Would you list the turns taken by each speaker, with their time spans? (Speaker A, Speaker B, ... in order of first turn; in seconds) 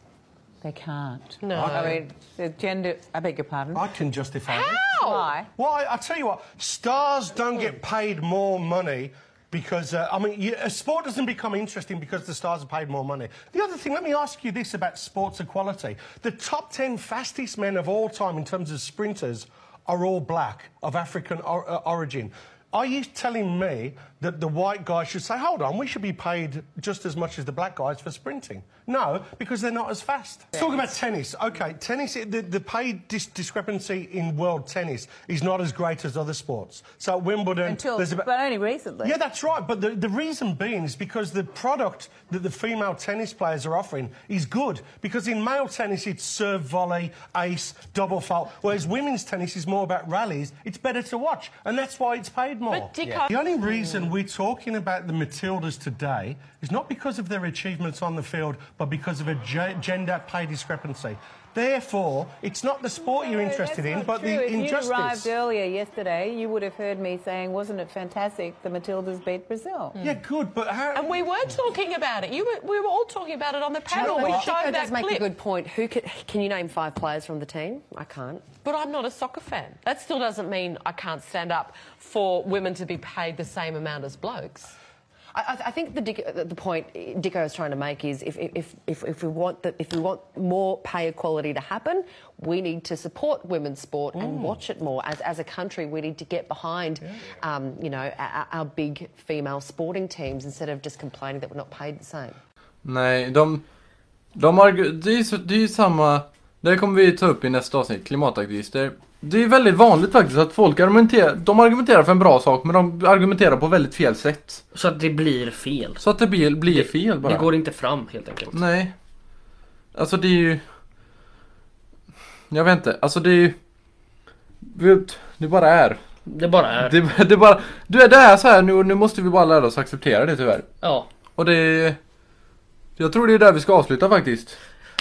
Speaker A: 0.6-3.9, 4.6-5.5, 37.6-39.1, 63.0-69.9, 74.0-75.2
Speaker B: 1.4-2.0, 4.5-5.3, 52.7-54.1, 70.9-84.7, 85.3-102.4
Speaker C: 1.5-2.0, 3.7-38.3, 39.0-65.3, 70.0-71.5, 73.9-74.9, 94.2-94.5
Speaker D: 102.8-103.6, 104.3-114.6, 116.0-117.5, 118.5-118.9, 119.9-120.6, 122.5-123.5, 124.6-126.0, 126.8-130.7, 131.3-132.0, 133.0-134.6
Speaker E: 114.7-116.0, 116.7-118.6, 126.2-126.9, 130.8-131.1